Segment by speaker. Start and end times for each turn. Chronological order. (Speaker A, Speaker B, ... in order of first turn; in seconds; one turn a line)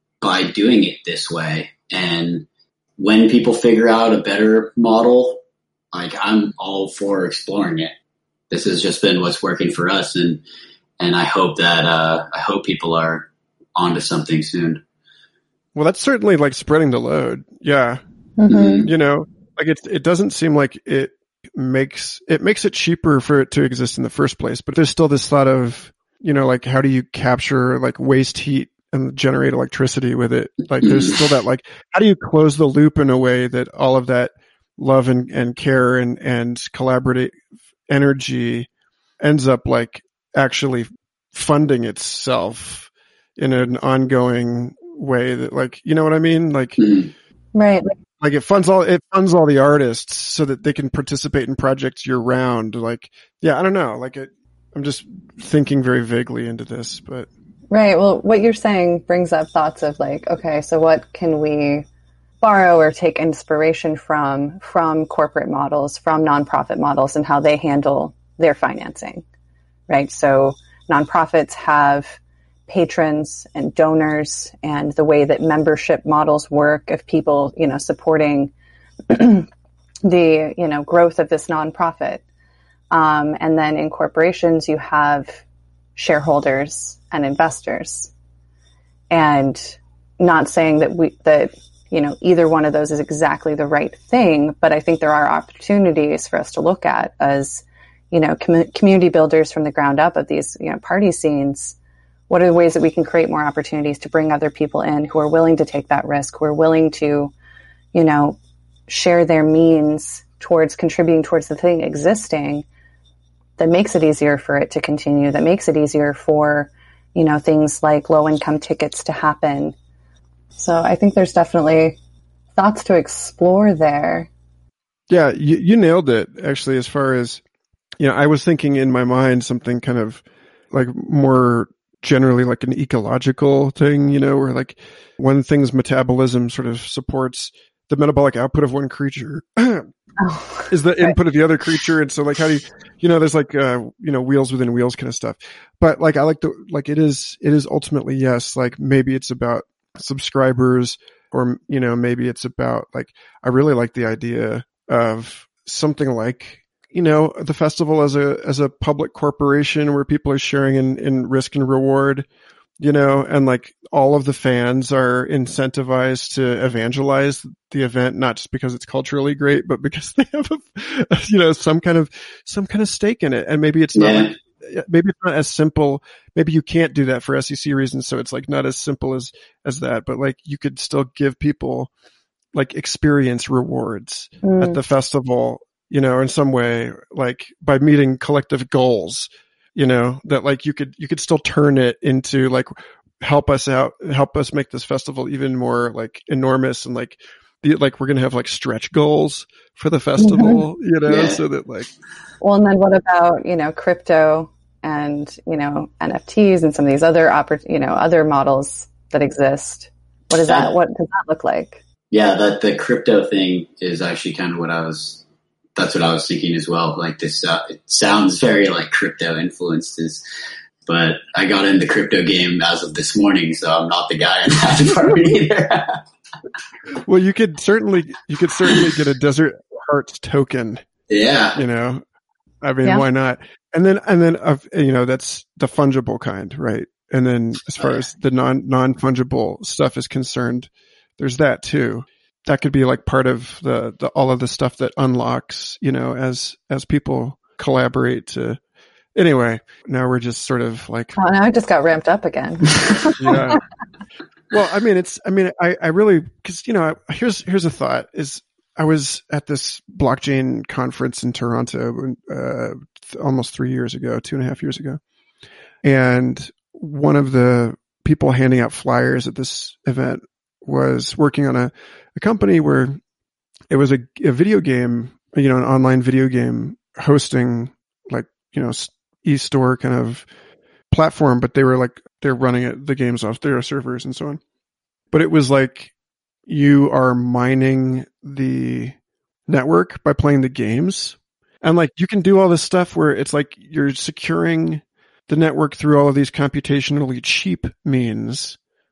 Speaker A: 0.2-2.5
Speaker A: 3.0-5.4
Speaker A: 5.9-7.9
Speaker A: 8.5-10.4
Speaker A: 11.0-14.8
Speaker B: 15.8-18.0
Speaker C: 18.4-18.9
Speaker A: 18.5-18.9
Speaker B: 18.8-37.4
Speaker A: 30.8-31.2
Speaker B: 37.9-38.7
Speaker B: 39.2-46.8
Speaker A: 46.8-47.1
Speaker C: 47.5-48.0
Speaker B: 48.2-57.3
Speaker C: 57.7-61.9
Speaker C: 62.4-69.2
Speaker C: 69.9-78.5
Speaker C: 79.1-79.5
Speaker C: 80.0-82.2
Speaker C: 82.9-85.4
Speaker C: 86.0-88.1
Speaker C: 89.1-101.8
Speaker C: 102.3-107.3
Speaker C: 107.9-108.4
Speaker C: 108.9-112.7
Speaker C: 113.6-119.8
Speaker C: 120.6-122.0
Speaker C: 122.5-124.3
Speaker B: 125.1-127.4
Speaker B: 128.0-139.9
Speaker C: 140.2-141.1
Speaker B: 140.7-162.3
Speaker B: 162.8-181.9
Speaker A: 173.9-174.3
Speaker B: 182.5-201.9
Speaker C: 184.4-184.8
Speaker C: 200.2-200.6
Speaker A: 201.1-201.4
Speaker C: 202.4-211.8
Speaker A: 210.4-210.7
Speaker A: 212.1-215.2
Speaker A: 215.8-220.2
Speaker A: 220.9-226.0
Speaker B: 227.1-230.8
Speaker A: 231.1-231.6
Speaker B: 231.6-232.0
Speaker B: 232.6-248.6
Speaker B: 249.2-251.2
Speaker C: 251.2-253.6
Speaker B: 253.2-253.6
Speaker B: 254.5-265.0
Speaker B: 265.8-273.0
Speaker B: 273.7-280.3
Speaker B: 280.9-284.4
Speaker B: 285.1-285.9
Speaker B: 286.5-288.9
Speaker B: 289.5-298.6